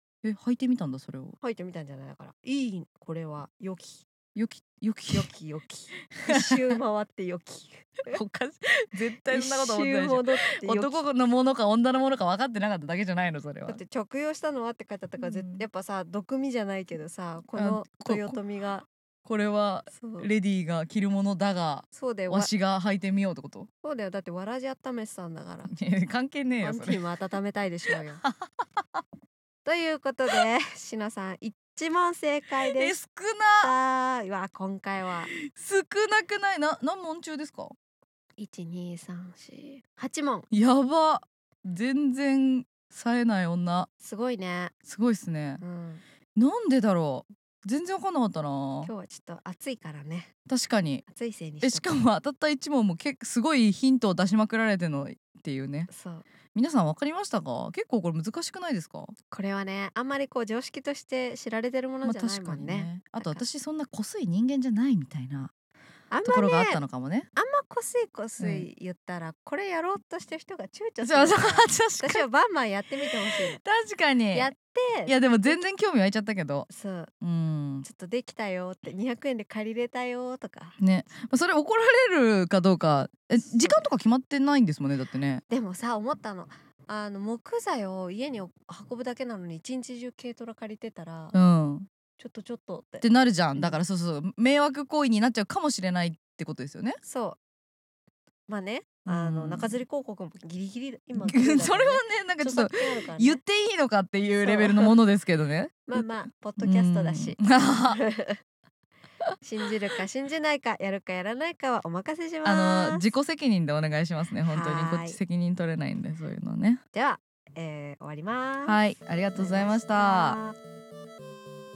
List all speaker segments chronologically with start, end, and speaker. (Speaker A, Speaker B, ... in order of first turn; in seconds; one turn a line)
Speaker A: 0.2-1.4
Speaker B: 1.4-4.0
Speaker A: 4.3-5.3
Speaker B: 5.1-8.2
Speaker A: 6.2-6.8
Speaker A: 8.1-13.8
Speaker B: 9.3-11.0
Speaker B: 13.7-18.9
Speaker A: 15.2-15.6
Speaker A: 17.6-18.4
Speaker A: 19.2-23.7
Speaker B: 19.9-20.3
Speaker B: 21.9-22.5
Speaker B: 23.8-25.7
Speaker A: 25.7-27.0
Speaker B: 26.6-28.2
Speaker A: 27.9-29.0
Speaker B: 29.6-33.0
Speaker A: 32.6-33.7
Speaker B: 33.6-35.3
Speaker A: 35.3-37.7
Speaker B: 38.4-40.5
Speaker A: 40.5-43.9
Speaker B: 44.0-44.7
Speaker A: 44.9-45.6
Speaker B: 45.6-46.0
Speaker A: 46.4-48.9
Speaker B: 48.8-50.3
Speaker A: 50.5-51.0
Speaker B: 51.1-52.0
Speaker A: 51.6-55.9
Speaker B: 55.9-56.3
Speaker A: 56.5-59.1
Speaker B: 59.3-63.4
Speaker A: 62.0-65.5
Speaker B: 66.1-66.8
Speaker A: 66.2-67.3
Speaker B: 67.3-73.6
Speaker A: 68.4-68.7
Speaker A: 71.0-72.2
Speaker A: 73.2-74.5
Speaker B: 74.3-75.6
Speaker A: 75.1-76.7
Speaker B: 76.7-77.1
Speaker A: 77.2-77.8
Speaker B: 77.8-80.8
Speaker A: 80.8-85.4
Speaker B: 83.4-83.8
Speaker B: 85.5-91.3
Speaker A: 91.3-91.9
Speaker B: 92.2-93.0
Speaker A: 93.0-97.0
Speaker B: 97.0-97.4
Speaker B: 98.5-103.4
Speaker A: 99.0-99.8
Speaker A: 101.2-106.0
Speaker B: 104.4-104.9
Speaker B: 105.9-108.4
Speaker A: 106.6-108.0
Speaker B: 109.4-113.1
Speaker A: 112.4-116.8
Speaker B: 114.4-115.2
Speaker B: 116.9-118.8
Speaker A: 118.6-120.4
Speaker B: 119.3-120.5